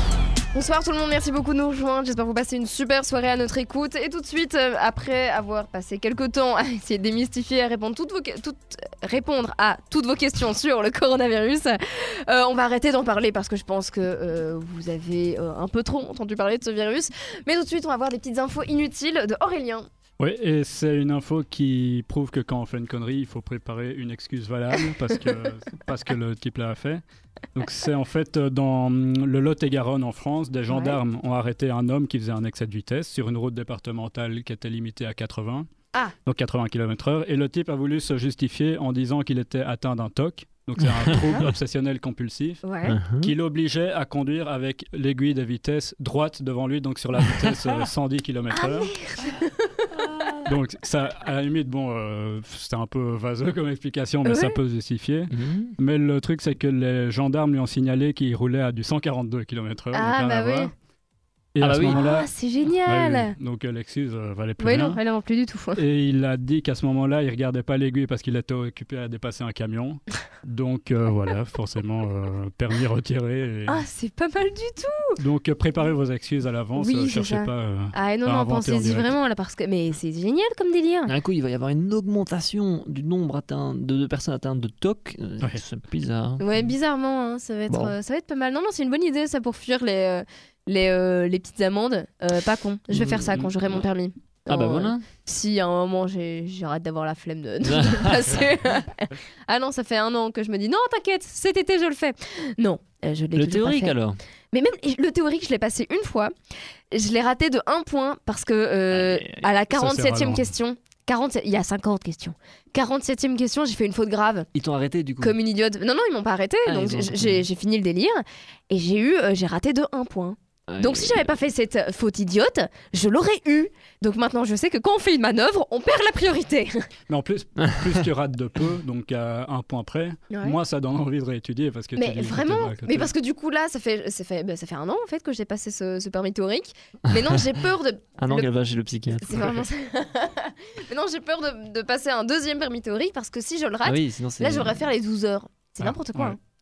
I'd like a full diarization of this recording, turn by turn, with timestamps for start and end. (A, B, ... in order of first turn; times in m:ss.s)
0:00.5-0:19.9 A
0:20.2-0:27.0 B
0:27.6-0:35.7 B
0:30.7-0:31.0 A
0:36.2-0:42.7 B
0:42.6-0:43.0 A
0:42.9-0:43.3 C
0:43.2-0:48.9 B
0:48.5-0:49.9 A
0:50.4-1:00.7 B
0:54.2-0:54.6 A
0:55.3-0:55.7 C
0:59.9-1:00.7 A
1:01.5-1:02.3 B
1:01.6-1:02.0 C
1:01.9-1:03.3 A
1:02.8-1:05.0 B
1:04.6-1:05.8 A
1:05.8-1:13.8 B
1:13.7-1:15.2 A
1:15.2-1:19.1 B
1:16.8-1:21.2 A
1:21.1-1:26.6 C
1:26.4-1:44.0 A
1:27.7-1:28.0 C
1:32.9-1:33.7 C
1:34.5-1:35.0 C
1:37.6-1:38.5 C
1:43.4-1:44.2 C
1:44.5-1:46.3 A
1:46.9-1:54.5 A
1:48.9-1:49.5 C
1:49.7-1:50.5 B
1:54.6-1:55.3 C
1:55.2-2:06.8 A
1:56.7-1:57.5 C
2:00.7-2:01.3 C
2:07.1-2:13.1 B
2:07.8-2:08.0 C
2:10.3-2:10.6 A
2:12.0-2:18.5 A
2:18.2-2:19.6 C
2:19.2-2:26.4 A
2:23.8-2:24.9 C
2:25.8-2:26.3 C